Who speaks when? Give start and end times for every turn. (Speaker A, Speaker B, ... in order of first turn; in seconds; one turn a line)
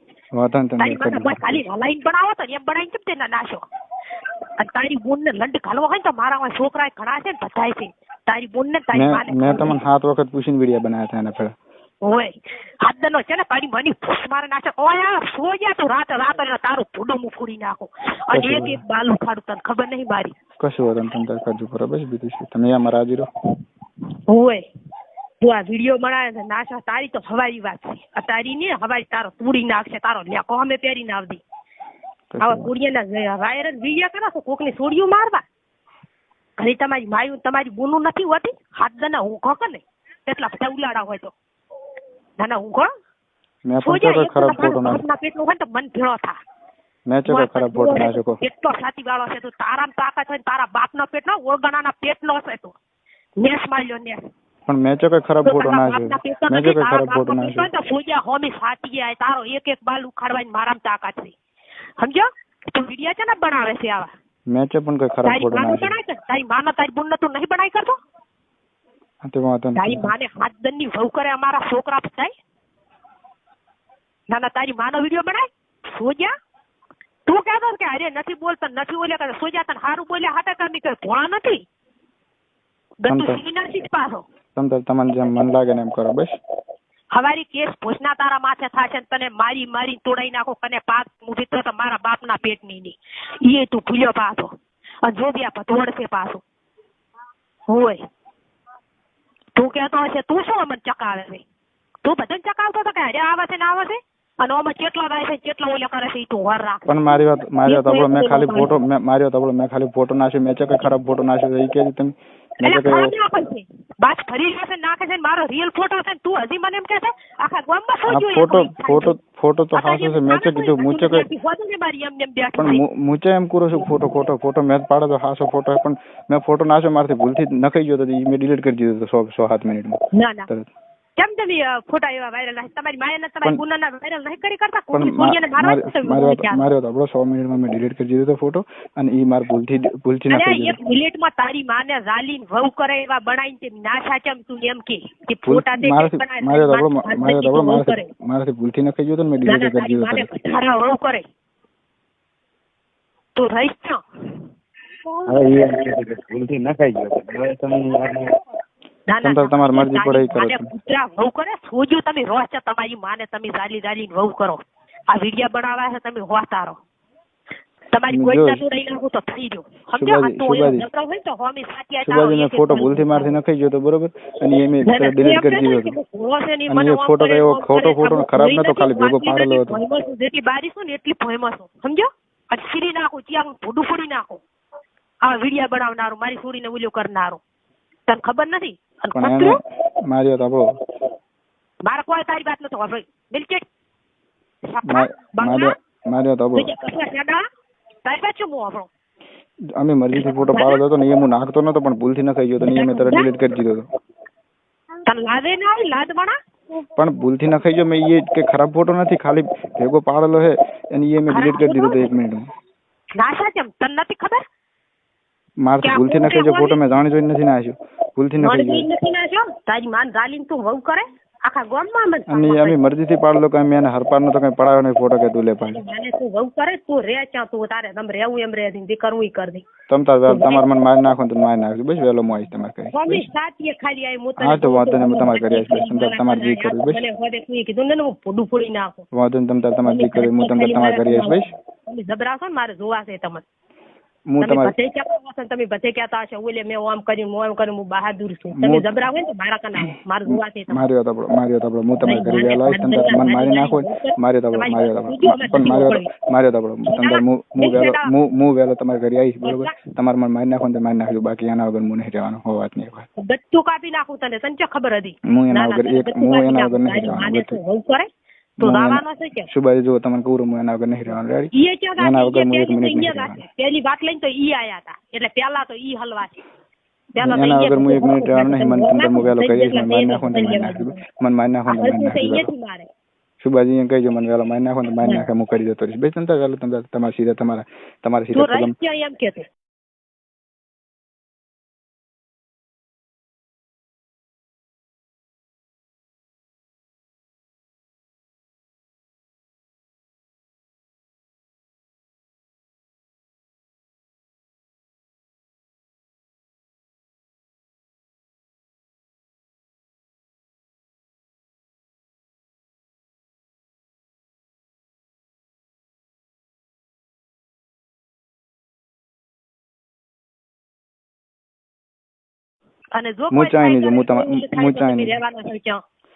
Speaker A: 0.3-1.6
Speaker B: 0.8-3.6
Speaker B: 4.6-9.8
Speaker A: 8.9-11.5
Speaker B: 12.0-12.3
Speaker B: 12.8-20.3
Speaker A: 18.3-18.8
Speaker A: 20.6-23.3
Speaker B: 24.3-24.6
Speaker B: 25.4-31.4
Speaker A: 32.3-32.7
Speaker B: 32.4-35.4
Speaker B: 36.6-41.3
Speaker B: 42.4-42.9
Speaker A: 43.6-45.0
Speaker B: 43.8-46.4
Speaker A: 47.1-48.4
Speaker B: 47.3-52.7
Speaker B: 53.4-54.2
Speaker A: 54.7-57.7
Speaker B: 55.4-61.3
Speaker B: 62.0-64.1
Speaker A: 64.5-65.9
Speaker B: 65.2-68.0
Speaker A: 69.2-70.1
Speaker B: 69.8-72.3
Speaker B: 74.3-76.3
Speaker B: 77.2-81.6
Speaker B: 83.0-84.2
Speaker A: 83.1-83.4
Speaker A: 84.5-86.3
Speaker B: 87.1-94.5
Speaker B: 95.0-96.4
Speaker B: 97.7-98.0
Speaker B: 99.5-101.4
Speaker B: 102.0-108.7
Speaker A: 106.9-113.1
Speaker B: 112.6-119.1
Speaker A: 118.1-121.2
Speaker B: 119.7-122.8
Speaker A: 122.6-130.7
Speaker B: 130.1-130.5
Speaker B: 131.2-136.7
Speaker A: 134.9-140.8
Speaker B: 140.3-148.1
Speaker A: 145.4-150.3
Speaker B: 149.4-151.2
Speaker B: 153.3-154.0
Speaker C: 155.3-158.3
Speaker B: 159.1-164.6
Speaker A: 159.2-160.7
Speaker B: 165.1-166.8
Speaker B: 167.9-173.3
Speaker A: 168.1-168.6
Speaker A: 170.0-170.8
Speaker A: 172.0-176.0
Speaker B: 174.8-184.4
Speaker A: 176.7-179.8
Speaker B: 185.2-187.4
Speaker B: 188.1-189.6
Speaker A: 189.1-190.7
Speaker B: 191.8-193.6
Speaker B: 194.7-195.7
Speaker A: 194.8-196.7
Speaker B: 196.5-197.4
Speaker B: 198.0-198.9
Speaker A: 199.8-203.8
Speaker B: 200.1-200.8
Speaker B: 202.6-203.3
Speaker B: 205.1-206.3
Speaker A: 207.0-212.4
Speaker B: 211.3-212.0
Speaker B: 213.2-214.4
Speaker A: 215.6-218.8
Speaker B: 215.8-216.8
Speaker B: 218.4-222.8
Speaker A: 222.3-225.8
Speaker B: 225.7-229.7
Speaker A: 229.9-233.2
Speaker B: 230.3-230.6
Speaker B: 232.9-239.0
Speaker A: 234.4-237.0
Speaker A: 239.1-241.5
Speaker B: 239.8-243.4
Speaker A: 244.3-244.7
Speaker B: 244.4-250.8
Speaker A: 248.5-248.9
Speaker A: 250.3-263.1
Speaker B: 252.0-256.1
Speaker B: 256.9-258.1
Speaker B: 259.4-259.8
Speaker B: 263.2-268.1
Speaker A: 265.3-267.6
Speaker B: 268.6-269.5
Speaker A: 268.6-273.4
Speaker B: 271.5-276.4
Speaker B: 277.1-281.0
Speaker A: 277.2-282.5
Speaker B: 281.7-282.9
Speaker A: 283.4-288.7
Speaker B: 288.3-289.4
Speaker B: 322.9-325.8
Speaker A: 323.3-325.1